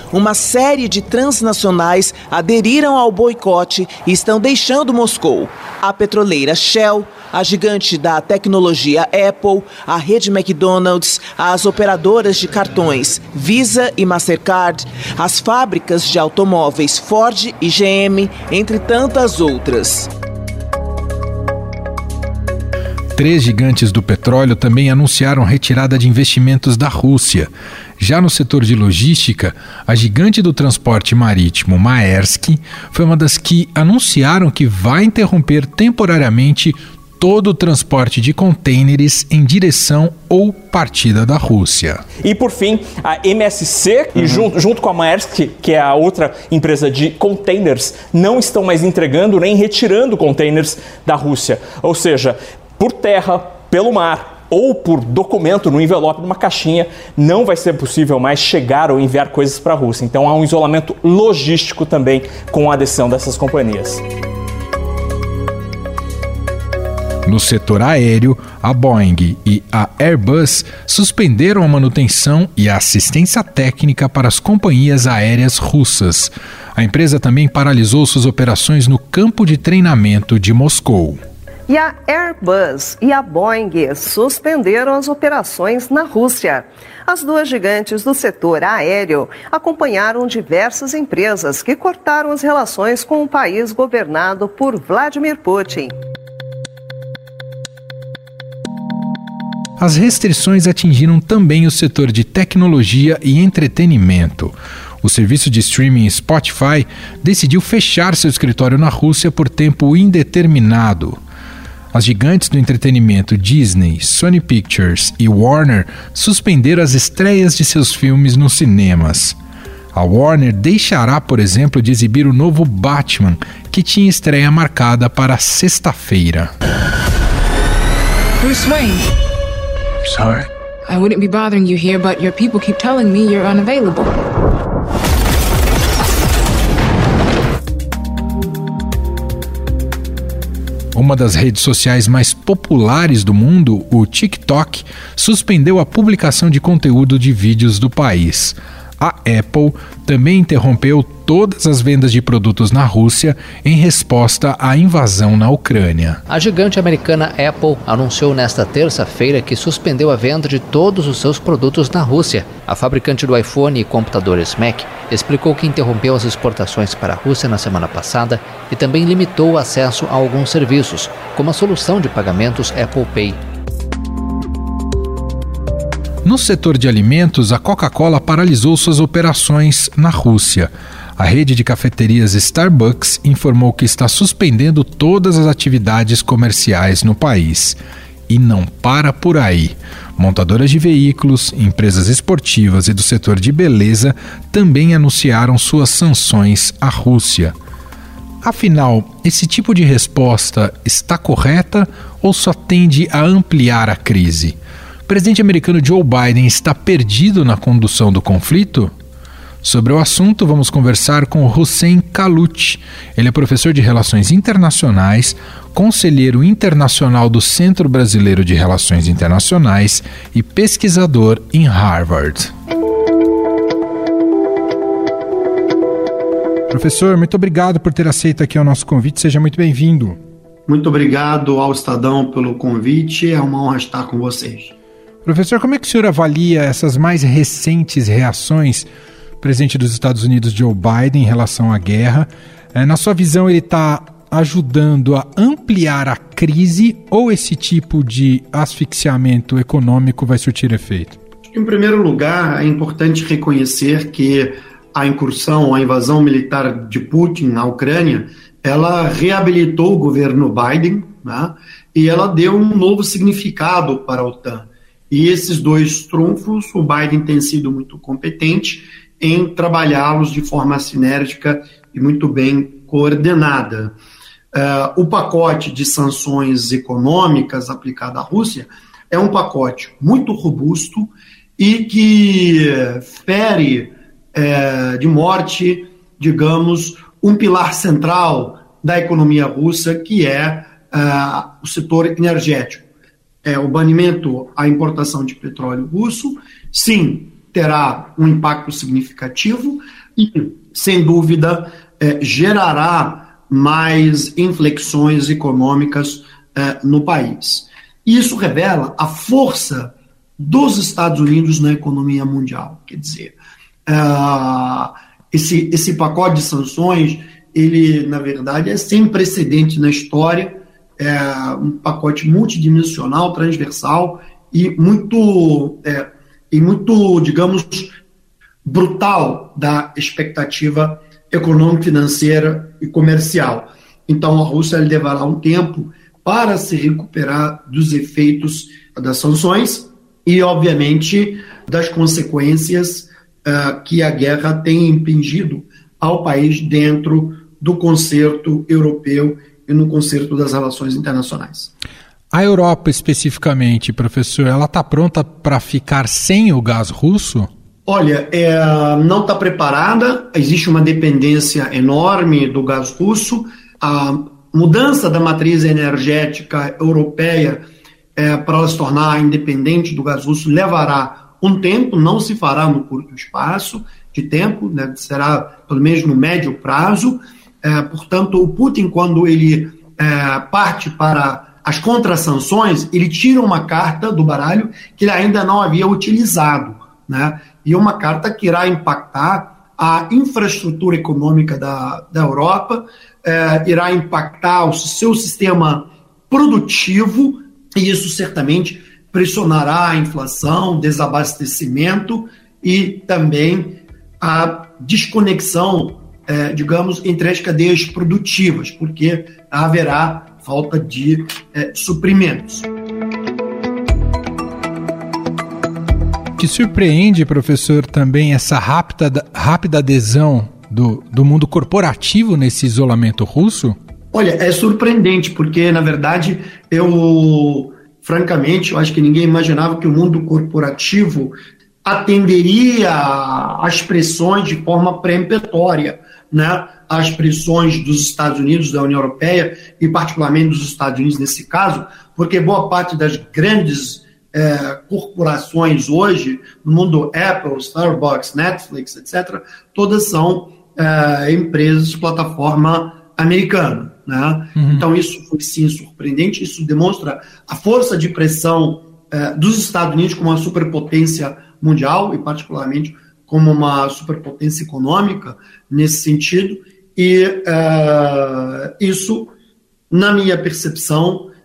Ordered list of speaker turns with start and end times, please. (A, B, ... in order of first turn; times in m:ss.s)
0:00.1-0:20.1 A
0:23.1-0:42.0 B
0:42.2-1:04.0 C
1:07.2-1:21.2 B
1:21.7-1:36.0 D
1:39.8-1:51.2 B
1:51.9-1:59.4 B
1:59.9-2:06.5 B
2:08.4-2:09.1 E
2:10.8-2:14.2 E
2:20.9-2:36.2 B
2:36.3-2:53.4 F
2:56.2-3:07.8 B
3:08.3-3:17.5 B
3:18.4-3:24.5 B
3:25.1-3:28.9 B
3:29.6-3:42.5 B
3:46.7-3:50.2 B
3:50.7-3:54.7 G
3:55.2-3:58.9 B
3:59.4-4:11.2 B
4:11.5-4:34.0 G
4:34.5-4:52.8 G
4:53.4-5:13.3 G
5:13.8-5:28.0 G
5:28.6-5:51.7 G
5:52.3-5:57.5 B
5:57.8-6:52.7 G
6:56.4-7:03.8 B
7:04.1-7:49.3 G
7:34.6-7:34.8 B
7:49.9-7:51.3 G